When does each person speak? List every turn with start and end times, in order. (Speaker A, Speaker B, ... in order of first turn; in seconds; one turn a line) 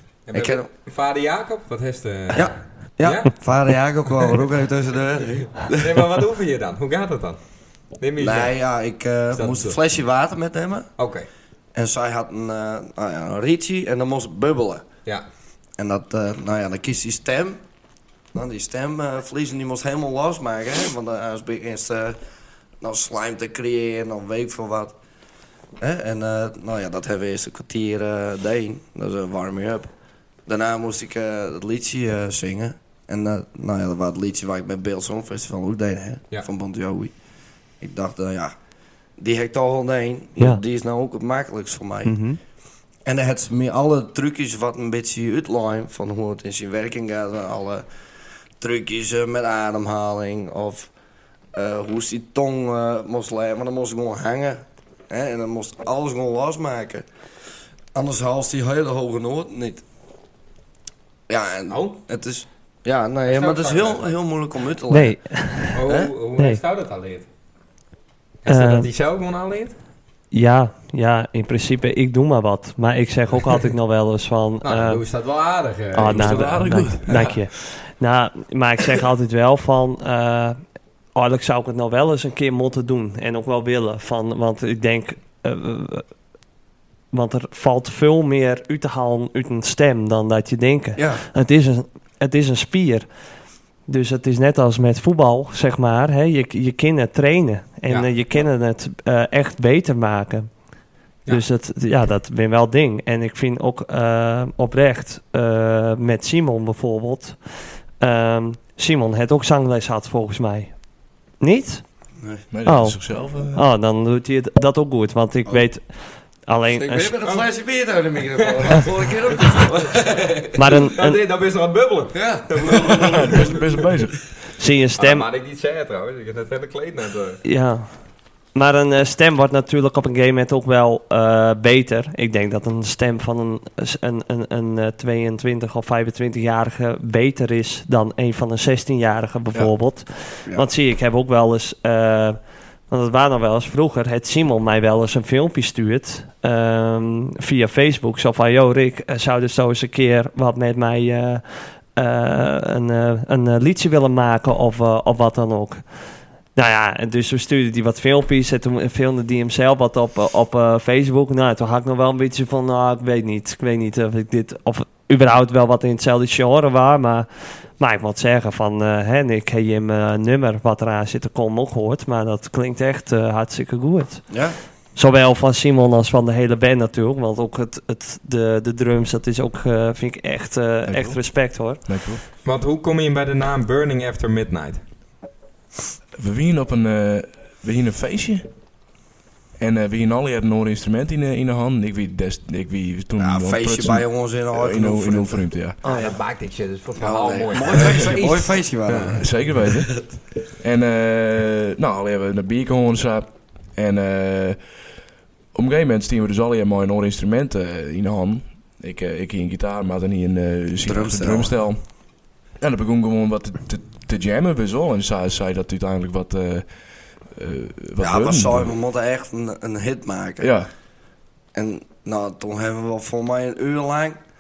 Speaker A: 0.3-3.3
Speaker B: 0.3-0.7
Speaker B: 2.3-5.9
Speaker A: 5.6-7.4
Speaker A: 8.0-8.6
Speaker B: 8.2-10.9
Speaker A: 9.3-9.8
Speaker A: 11.0-11.3
Speaker B: 11.7-14.9
Speaker B: 15.8-17.6
Speaker B: 18.3-22.2
Speaker B: 22.8-25.0
Speaker B: 25.8-29.9
Speaker B: 30.5-37.1
Speaker B: 37.8-38.5
Speaker B: 39.2-42.2
Speaker C: 42.1-42.4
Speaker B: 43.0-47.9
Speaker B: 48.6-50.9
Speaker B: 51.5-57.1
Speaker B: 57.9-59.9
Speaker B: 61.3-65.2
Speaker A: 61.7-62.0
Speaker A: 63.2-64.1
Speaker C: 64.9-65.8
Speaker A: 65.7-67.3
Speaker B: 65.9-66.1
Speaker A: 68.4-69.8
Speaker C: 68.5-68.9
Speaker C: 70.3-75.0
Speaker A: 74.6-77.3
Speaker C: 75.9-80.6
Speaker D: 76.1-77.3
Speaker C: 81.2-86.1
Speaker C: 87.1-93.1
Speaker B: 91.0-91.2
Speaker C: 93.9-100.5
Speaker C: 101.3-107.4
Speaker C: 108.0-110.8
Speaker C: 111.4-111.8
Speaker D: 112.5-113.7
Speaker C: 112.7-117.1
Speaker B: 116.7-120.5
Speaker A: 118.4-123.8
Speaker C: 120.6-121.2
Speaker B: 122.1-123.5
Speaker D: 123.0-124.4
Speaker C: 124.6-125.3
Speaker A: 125.0-127.4
Speaker C: 127.4-127.9
Speaker C: 128.5-142.4
Speaker C: 142.9-155.8
Speaker C: 156.6-174.3
Speaker B: 174.3-174.6
Speaker C: 174.9-181.9
Speaker D: 180.9-182.2
Speaker A: 182.4-184.8
Speaker D: 186.2-188.5
Speaker D: 189.6-195.8
Speaker B: 193.2-195.5
Speaker C: 195.8-196.2
Speaker A: 195.8-199.2
Speaker B: 197.0-200.1
Speaker D: 199.2-200.1
Speaker D: 200.6-204.8
Speaker D: 205.5-212.0
Speaker B: 210.8-211.7
Speaker D: 212.5-218.7
Speaker B: 218.0-220.6
Speaker D: 220.4-220.7
Speaker B: 221.5-224.2